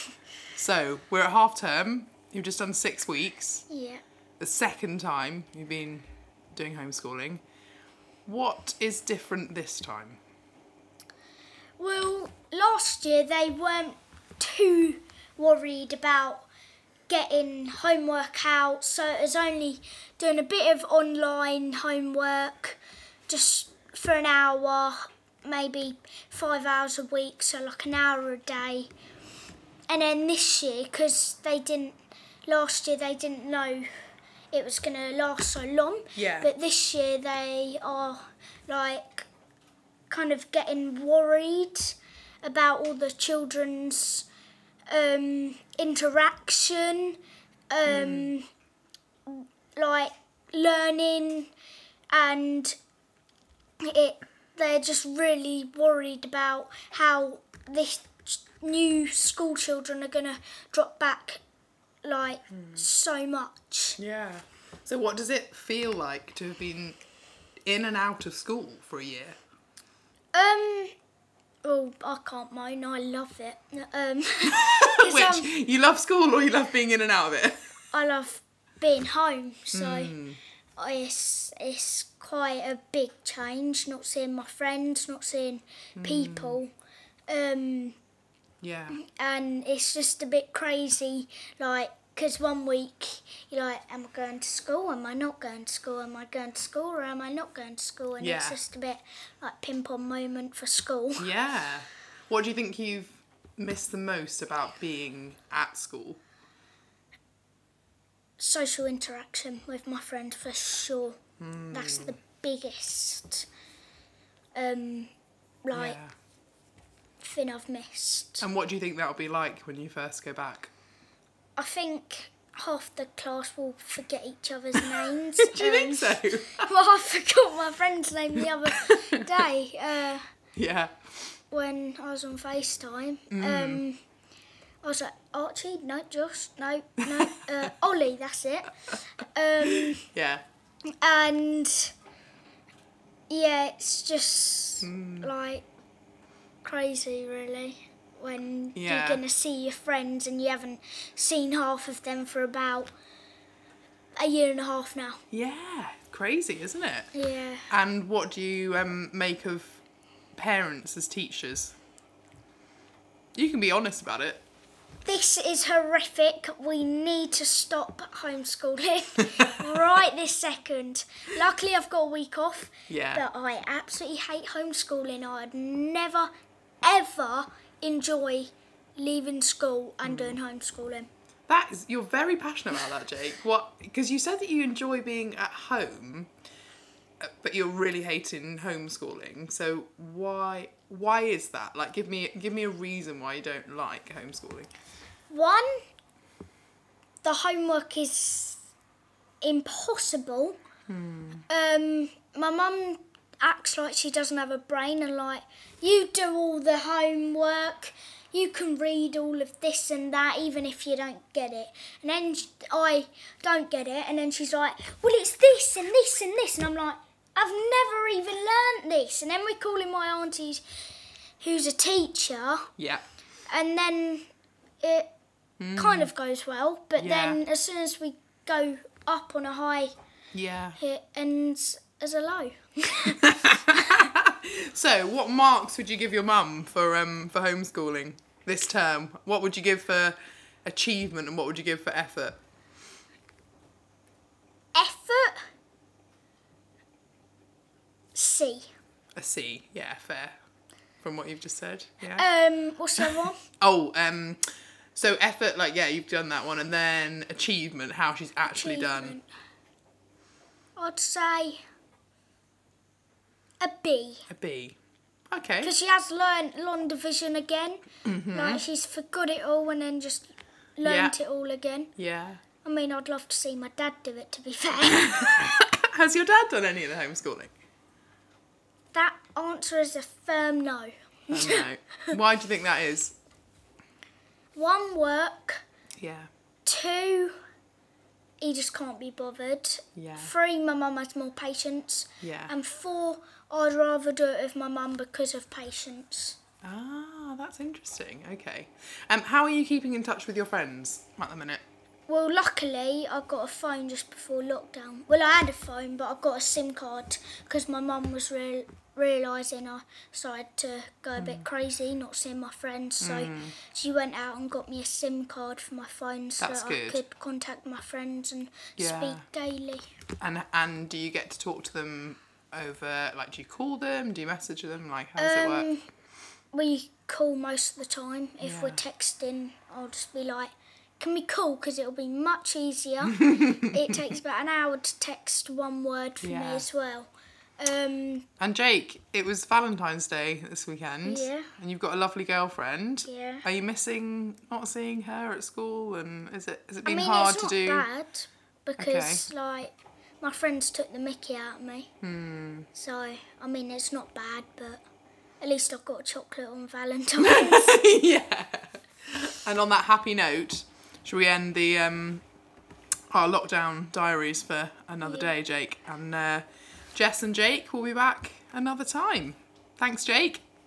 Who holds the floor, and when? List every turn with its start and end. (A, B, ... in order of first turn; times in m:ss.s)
0:00.5-0:03.6 A
0:03.7-0:04.0 B
0:04.4-0:07.4 A
0:08.2-0:10.2 A
0:11.8-0:16.5 B
0:17.1-0:28.9 B
0:29.9-0:33.9 B
0:34.5-0:39.3 B
0:36.1-0:36.5 A
0:40.1-0:44.2 B
0:44.9-0:47.2 B
0:47.7-0:48.5 B
0:47.8-0:48.3 A
0:49.2-0:51.5 B
0:52.1-0:52.7 B
0:53.8-1:01.4 B
1:02.0-1:04.0 B
1:02.6-1:02.8 A
1:04.0-1:07.0 A
1:07.6-1:09.4 A
1:10.3-1:10.9 B
1:11.6-1:15.5 B
1:14.4-1:17.7 A
1:17.9-1:20.2 B
1:19.7-1:20.4 A
1:20.8-1:26.7 B
1:26.0-1:26.6 A
1:27.3-1:28.0 B
1:28.6-1:29.0 A
1:28.9-1:41.3 B
1:38.2-1:38.6 A
1:41.2-1:46.2 A
1:48.4-1:51.2 B
1:51.4-1:52.1 A
1:51.7-1:53.5 B
1:54.5-1:55.1 B
1:55.6-1:56.0 B
1:55.7-1:56.1 A
1:57.2-1:58.4 B
1:58.4-2:00.7 A
2:01.6-2:10.2 B
2:04.8-2:06.7 A
2:08.8-2:09.2 A
2:10.6-2:11.1 A
2:11.5-2:14.0 B
2:13.3-2:13.8 A
2:14.8-2:18.8 B
2:19.3-2:20.0 B
2:19.8-2:20.4 A
2:21.0-2:21.9 B
2:23.3-2:25.7 B
2:24.8-2:25.3 A
2:26.6-2:32.9 B
2:28.7-2:29.2 A
2:34.2-2:35.2 B
2:35.3-2:37.1 A
2:37.1-2:37.7 B
2:37.7-2:39.8 A
2:40.3-2:41.8 A
2:43.3-2:44.4 A
2:45.0-2:56.3 B
2:52.9-2:53.2 A
2:56.8-3:01.1 B
3:00.0-3:00.4 A
3:01.5-3:06.3 A
3:07.2-3:14.7 A
3:15.3-3:15.8 B
3:17.2-3:18.6 B
3:19.4-3:20.6 B
3:20.9-3:21.4 A
3:21.5-3:40.6 B
3:41.4-3:42.7 B
3:42.8-3:43.0 A
3:43.5-3:44.2 B
3:44.8-3:45.1 B
3:45.6-3:46.1 A
3:45.7-3:49.9 B
3:47.0-3:47.4 A
3:50.3-3:50.8 A
3:50.8-3:54.0 B
3:53.1-4:02.4 A
4:04.7-4:05.4 B
4:08.1-4:08.7 B
4:09.2-4:10.4 A
4:11.0-4:12.2 A
4:12.1-4:13.4 B
4:13.0-4:14.4 A
4:14.9-4:19.2 A
4:18.5-4:19.3 B
4:20.8-4:21.6 B
4:23.6-4:24.3 B
4:24.3-4:24.8 A
4:25.3-4:25.7 A
4:25.6-4:31.9 B
4:28.0-4:28.6 A
4:30.8-4:31.1 A
4:32.0-4:32.4 A
4:32.6-4:35.5 B
4:34.9-4:37.5 A
4:38.9-4:42.1 B
4:41.3-4:43.1 A
4:44.5-4:45.6 B
4:46.0-4:46.3 A
4:46.6-4:47.3 B
4:48.4-4:56.4 B
4:50.0-4:50.3 A
4:52.2-4:52.5 A
4:56.6-5:01.6 A
5:02.1-5:19.8 B
5:11.2-5:11.4 A
5:13.0-5:13.5 A
5:16.4-5:17.0 A
5:18.8-5:19.2 A
5:20.2-5:25.7 A
5:25.2-5:25.9 B
5:26.5-5:38.3 B
5:28.4-5:28.8 A
5:36.2-5:36.6 A
5:38.4-5:47.9 A
5:41.0-5:41.5 B
5:43.0-5:43.4 B
5:46.8-5:51.9 B
5:48.8-5:49.2 A
5:52.0-5:52.7 A
5:52.7-5:54.8 B
5:55.4-5:57.8 B
5:57.2-6:02.2 A
6:03.1-6:10.4 A
6:05.0-6:05.3 B